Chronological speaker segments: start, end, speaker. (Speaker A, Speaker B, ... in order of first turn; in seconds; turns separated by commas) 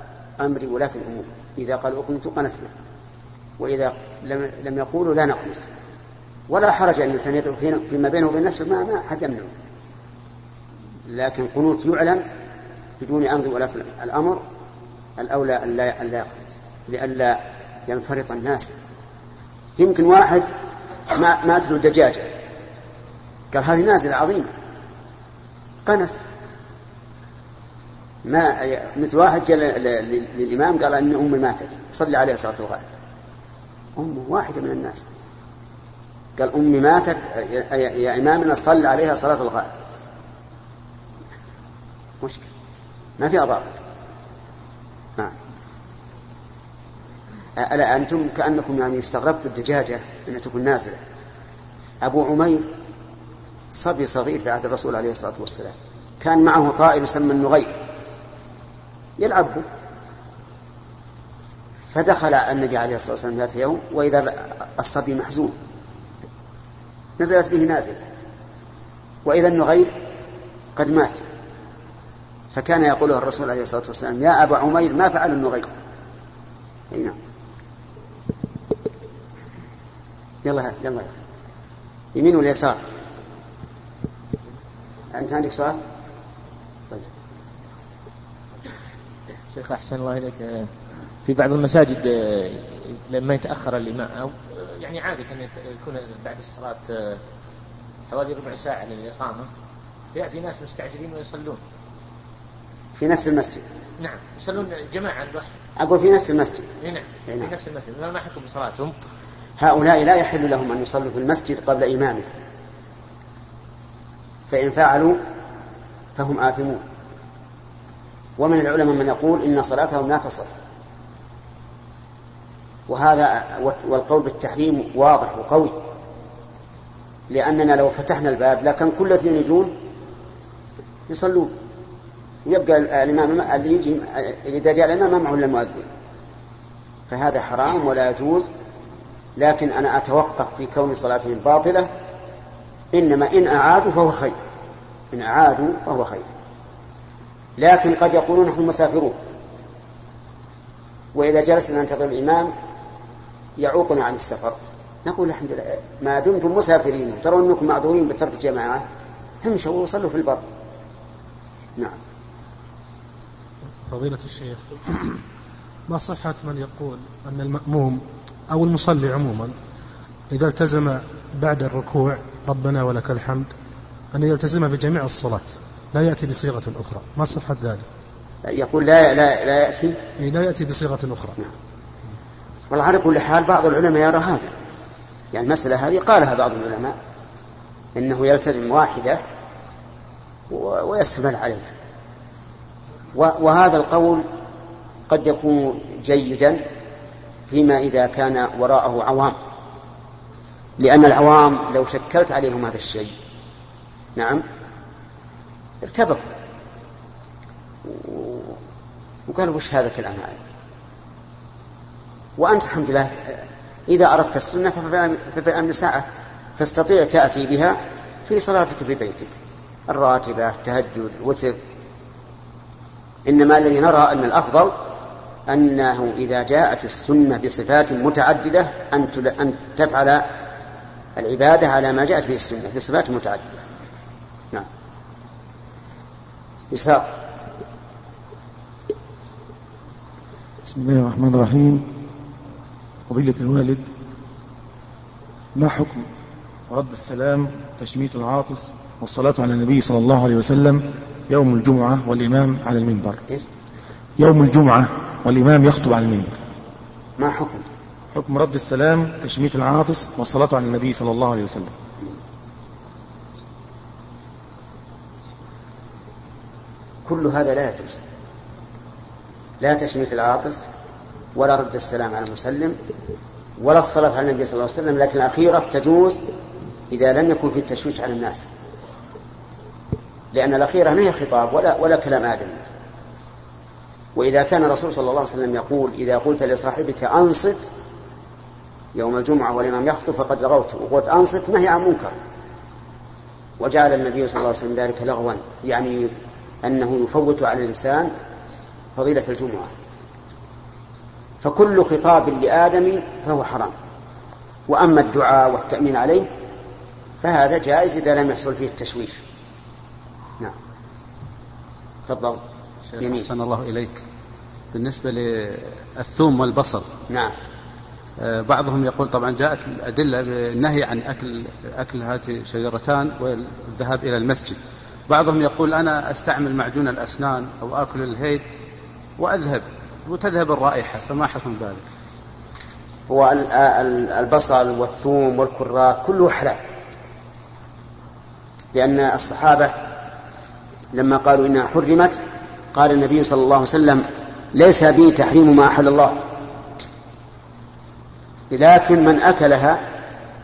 Speaker A: 0.4-2.7, Speaker A: 3.6-5.7, Speaker A: 6.5-9.5, Speaker A: 11.1-12.2, Speaker A: 13.0-14.4, Speaker A: 15.2-18.7, Speaker A: 19.8-20.5, Speaker A: 21.1-22.3, Speaker A: 23.5-24.5, Speaker A: 25.8-26.2, Speaker A: 28.2-32.9, Speaker A: 34.0-35.0, Speaker A: 36.4-39.7, Speaker A: 42.2-42.5, Speaker A: 43.2-43.7, Speaker A: 47.6-51.0, Speaker A: 52.0-52.7, Speaker A: 53.7-57.8, Speaker A: 59.2-59.6, Speaker A: 61.9-65.6, Speaker A: 67.2-68.0, Speaker A: 69.2-69.9, Speaker A: 70.7-71.2, Speaker A: 72.5-75.7, Speaker A: 76.9-77.2, Speaker A: 80.4-81.1, Speaker A: 82.1-82.8, Speaker A: 85.1-85.8, Speaker B: 89.5-90.7, Speaker B: 91.2-97.2, Speaker B: 98.1-99.5, Speaker B: 100.1-101.6, Speaker A: 102.9-103.6, Speaker B: 104.0-105.5, Speaker A: 105.8-106.7, Speaker B: 106.8-108.9, Speaker A: 109.6-112.3, Speaker A: 114.5-115.2, Speaker A: 116.2-116.8, Speaker A: 118.4-120.5, Speaker A: 122.9-125.8, Speaker A: 127.3-129.7, Speaker A: 131.1-131.5, Speaker A: 132.4-135.9, Speaker A: 137.1-138.5, Speaker A: 139.4-141.9, Speaker A: 142.9-144.4, Speaker A: 145.1-146.3, Speaker A: 147.6-149.2, Speaker A: 151.1-152.5, Speaker A: 153.6-158.8, Speaker A: 159.4-160.4, Speaker C: 163.8-165.2, Speaker C: 165.9-169.5, Speaker C: 170.3-173.5, Speaker C: 174.1-177.8, Speaker A: 178.4-180.0, Speaker C: 180.2-181.4, Speaker A: 182.7-184.5, Speaker A: 185.3-186.9, Speaker A: 187.9-189.2, Speaker A: 190.5-191.7, Speaker A: 193.1-194.2, Speaker A: 195.1-196.6, Speaker A: 197.5-199.4, Speaker A: 200.8-203.1, Speaker A: 204.2-204.4, Speaker A: 205.8-206.3, Speaker A: 207.8-208.6, Speaker A: 209.3-210.4, Speaker A: 212.4-216.1, Speaker A: 216.6-219.3, Speaker A: 219.9-221.6, Speaker A: 223.3-224.8, Speaker A: 225.5-230.3, Speaker A: 231.2-233.6, Speaker A: 236.7-237.2, Speaker D: 240.6-241.9, Speaker D: 243.1-243.9, Speaker D: 245.5-246.1, Speaker D: 246.7-253.2, Speaker D: 254.2-256.3, Speaker A: 257.2-257.6, Speaker D: 258.1-261.7, Speaker A: 267.1-268.0, Speaker A: 269.6-270.6, Speaker A: 271.3-272.8, Speaker A: 273.6-276.2, Speaker A: 276.9-278.5, Speaker A: 280.3-282.6, Speaker A: 284.1-287.6, Speaker A: 288.9-292.1, Speaker A: 293.6-298.1, Speaker A: 298.9-299.7, Speaker A: 301.4-303.7, Speaker A: 304.7-306.3, Speaker A: 307.2-309.2, Speaker A: 312.1-312.4, Speaker E: 312.9-314.0, Speaker A: 313.0-313.3, Speaker E: 314.7-316.9, Speaker E: 318.2-328.4, Speaker E: 329.2-331.8, Speaker A: 333.1-336.6, Speaker A: 338.7-339.8, Speaker A: 340.9-342.2, Speaker A: 342.7-346.2, Speaker A: 348.5-349.8